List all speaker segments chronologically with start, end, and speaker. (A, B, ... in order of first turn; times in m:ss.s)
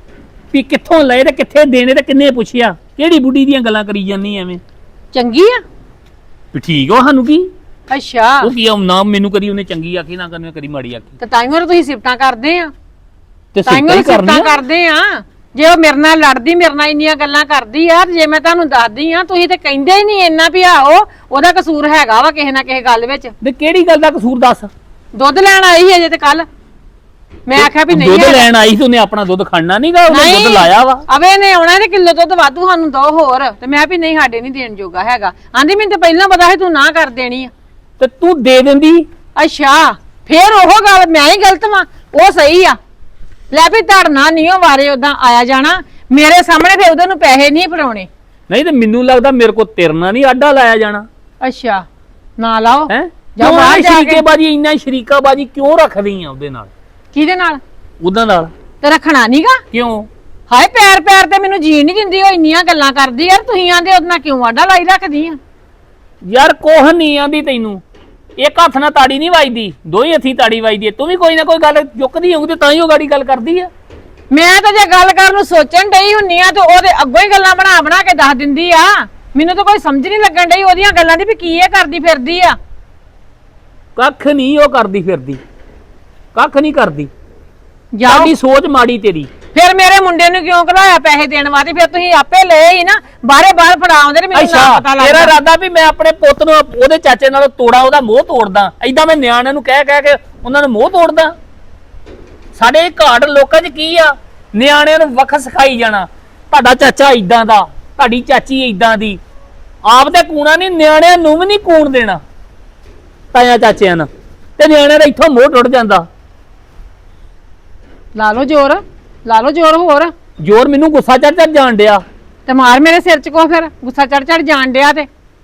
0:00.5-0:04.6 A
0:05.1-0:05.6 B
0:06.5-0:07.5 A
0:07.9-0:08.5 B
0:08.4-0:11.2 A
0:11.2-0:12.7 B
0:13.5-0:14.6 A
0:13.6-0:23.3 B
0:23.4-0:24.7 A
0:25.1-0:26.5 B
0:27.4-0:28.5 B
0:27.5-0:31.0 A
0:30.1-0:37.5 B
0:38.0-0:39.1 A
0:39.4-0:42.8 B
0:43.5-0:48.1 B
0:48.5-0:51.1 A
0:51.4-0:54.2 B
0:52.9-0:56.7 A
0:57.1-0:57.6 B
0:58.0-0:58.5 A
0:58.8-0:59.6 B
0:59.7-1:00.1 A
1:00.5-1:05.4 B
1:06.2-1:07.8 A
1:08.4-1:13.7 A
1:14.3-1:22.6 B
1:24.0-1:25.4 A
1:26.4-1:27.1 A
1:27.9-1:28.3 B
1:28.1-1:29.3 A
1:29.5-1:35.4 B
1:34.3-1:41.3 A
1:42.6-1:49.2 A
1:49.9-1:52.2 A
1:53.3-1:56.1 A
1:58.1-2:00.1 B
2:00.4-2:02.0 A
2:02.4-2:05.1 B